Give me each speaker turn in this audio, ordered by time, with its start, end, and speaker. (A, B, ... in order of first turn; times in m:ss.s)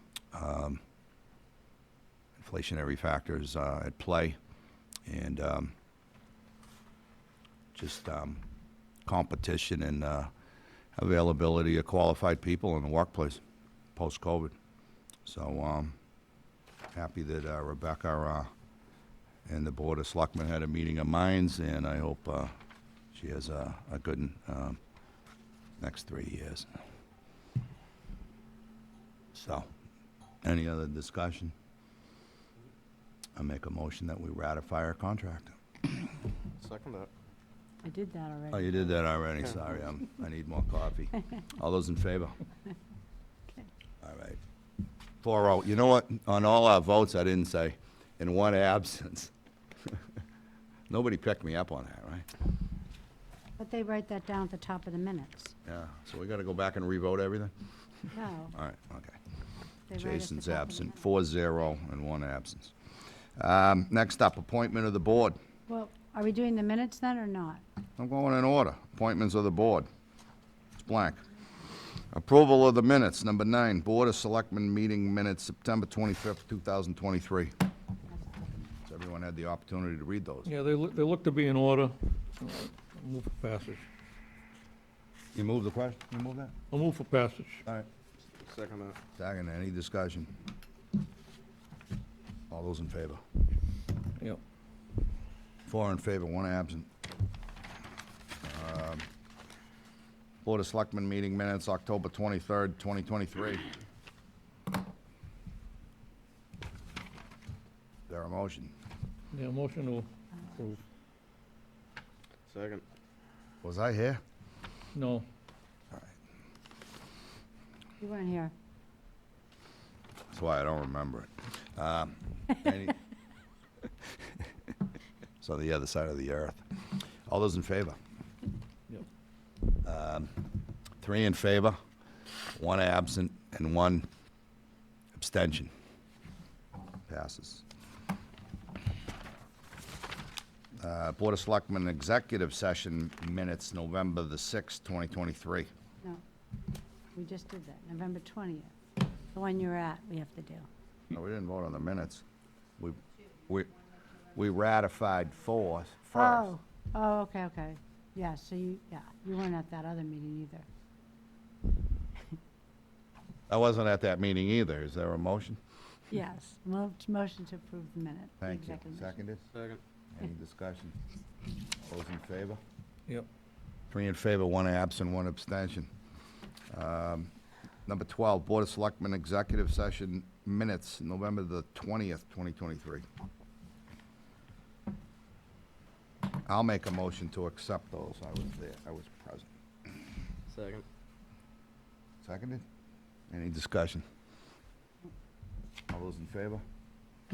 0:00.3-0:00.8 A
0:02.4-0:04.4 A
0:05.1-0:05.7 A
0:07.7-0:08.4 A
0:09.0-0:10.3 A
0:11.0-0:13.4 A
0:14.0-0:14.5 A
0:15.2-0:16.0 A
0:16.9-0:18.5 A
0:19.4-0:22.5 A
0:23.1-0:24.8 A
0:25.8-0:26.8 A
0:29.3-0:29.7 A
0:30.4-0:31.5 A
0:33.4-0:35.6 A
0:36.6-0:37.1 B
0:37.8-0:38.8 C
0:38.5-0:42.4 A
0:44.0-0:44.4 A
0:45.2-0:49.3 A
0:50.9-0:52.3 A
0:53.6-0:55.5 C
0:55.6-0:57.5 A
0:58.1-0:58.5 C
0:58.5-0:59.2 A
0:59.9-1:01.1 C
1:00.0-1:02.7 A
1:03.4-1:05.4 A
1:05.7-1:07.6 C
1:08.0-1:09.9 A
1:10.8-1:11.2 A
1:12.1-1:17.5 A
1:18.8-1:20.5 A
1:20.4-1:23.8 D
1:25.3-1:26.5 A
1:26.7-1:27.6 D
1:28.4-1:29.0 B
1:29.2-1:30.3 A
1:32.5-1:33.2 A
1:35.7-1:36.9 A
1:38.4-1:39.0 A
1:40.4-1:43.7 A
1:48.1-1:48.7 A
1:49.3-1:50.1 D
1:52.5-1:52.8 B
1:53.6-1:54.2 A
1:54.9-1:55.2 D
1:58.0-1:58.5 C
2:00.3-2:03.0 A
2:05.4-2:06.6 A
2:07.3-2:08.0 A
2:09.8-2:11.8 A
2:12.5-2:14.1 A
2:15.1-2:15.7 A
2:17.1-2:17.6 A
2:20.8-2:25.7 A
2:27.1-2:28.7 C
2:29.3-2:30.7 C
2:31.1-2:32.2 A
2:32.8-2:33.7 A
2:34.3-2:36.5 A
2:36.1-2:40.6 C
2:43.5-2:45.6 A
2:46.1-2:49.2 C
2:48.4-2:49.4 A
2:49.5-2:49.8 B
2:50.1-2:51.0 A
2:51.8-2:52.6 A
2:53.9-2:55.9 A
2:56.7-2:57.3 A
2:57.8-3:03.0 A
3:06.4-3:09.5 A
3:10.5-3:10.8 B
3:12.2-3:12.6 A
3:13.3-3:14.0 A
3:15.9-3:16.6 A